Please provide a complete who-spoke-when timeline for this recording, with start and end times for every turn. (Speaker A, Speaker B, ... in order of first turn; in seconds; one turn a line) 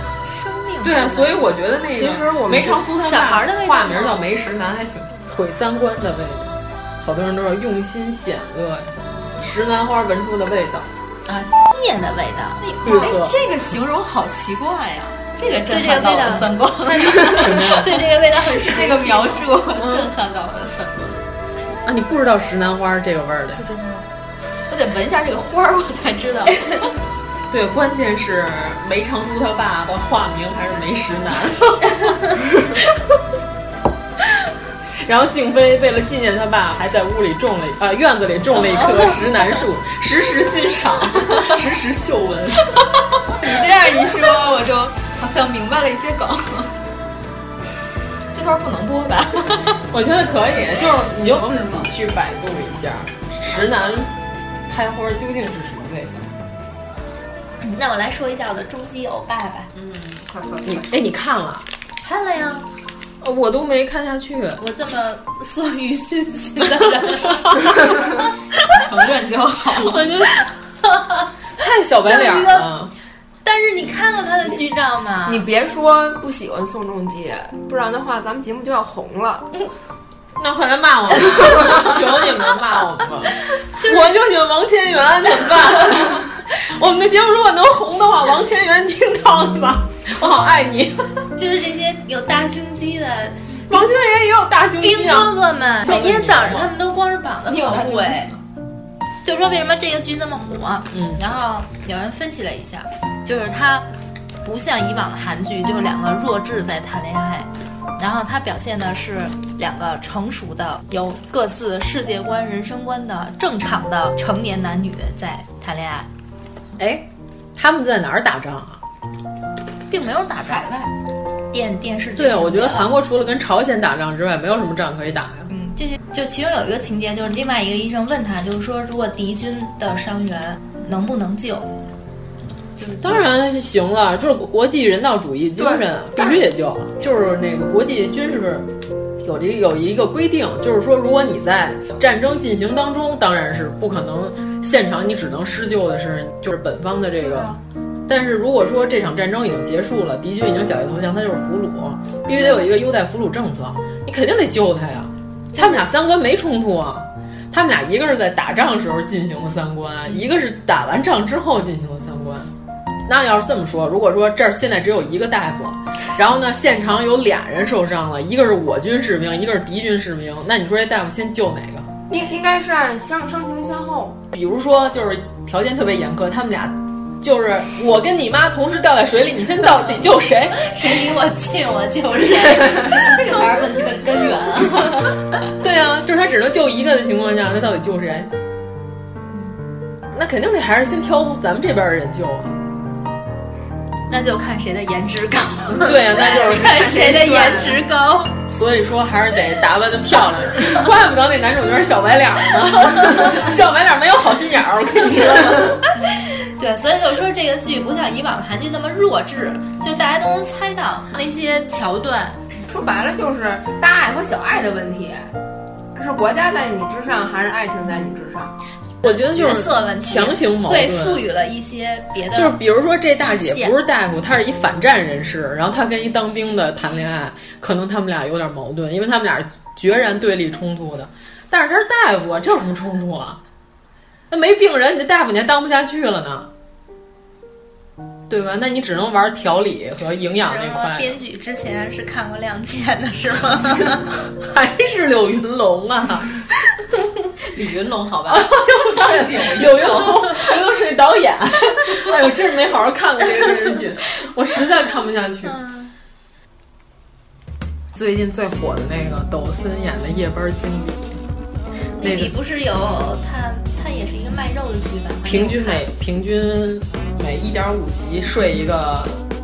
Speaker A: 0.2-1.5
Speaker B: 0.8-10.9
Speaker C: 1.9-2.8
Speaker A: 3.0-4.2
Speaker A: 11.2-12.6
Speaker D: 12.6-17.9
Speaker B: 12.8-13.3
Speaker A: 15.7-19.4
Speaker B: 17.3-18.0
Speaker D: 18.4-21.2
Speaker B: 19.7-20.1
Speaker B: 21.9-23.6
Speaker A: 23.6-24.0
Speaker D: 24.7-26.9
Speaker B: 27.5-31.9
Speaker B: 35.0-42.8
Speaker D: 42.8-46.7
Speaker D: 48.3-49.8
Speaker B: 49.9-54.1
Speaker B: 54.7-56.2
Speaker A: 57.6-59.7
Speaker D: 59.7-61.0
Speaker B: 60.6-61.7
Speaker A: 62.0-62.6
Speaker B: 63.2-64.6
Speaker A: 64.6-67.6
Speaker D: 68.7-70.2
Speaker B: 69.7-70.5
Speaker A: 70.8-71.3
Speaker B: 71.6-72.9
Speaker A: 72.0-72.7
Speaker A: 73.4-75.5
Speaker C: 75.2-79.5
Speaker B: 80.4-91.1
Speaker A: 91.3-93.4
Speaker B: 93.7-96.7
Speaker A: 94.8-98.3
Speaker D: 97.5-98.4
Speaker A: 99.2-103.9
Speaker B: 100.9-101.2
Speaker A: 104.4-116.1
Speaker B: 116.8-118.8
Speaker A: 119.9-120.7
Speaker D: 120.4-120.9
Speaker A: 121.5-122.9
Speaker B: 122.2-125.5
Speaker A: 125.5-131.7
Speaker A: 132.8-133.2
Speaker B: 133.0-138.7
Speaker B: 139.2-162.5
Speaker B: 163.1-171.9
Speaker C: 172.1-174.2
Speaker B: 174.3-180.6
Speaker A: 180.6-183.1
Speaker D: 182.8-185.2
Speaker B: 185.6-188.3
Speaker B: 190.1-192.5
Speaker A: 194.1-198.3
Speaker B: 195.8-197.6
Speaker B: 198.5-205.8
Speaker A: 205.6-212.4
Speaker C: 212.7-215.3
Speaker C: 215.9-218.5
Speaker A: 219.0-222.6
Speaker B: 219.0-221.2
Speaker B: 222.3-233.4
Speaker A: 223.2-223.7
Speaker B: 234.3-236.5
Speaker B: 238.3-241.2
Speaker A: 240.4-244.1
Speaker B: 244.4-246.3
Speaker D: 247.5-250.3
Speaker B: 248.3-255.5
Speaker A: 255.4-255.9
Speaker B: 257.9-261.2
Speaker A: 261.9-265.8
Speaker B: 262.0-262.3
Speaker B: 265.2-269.2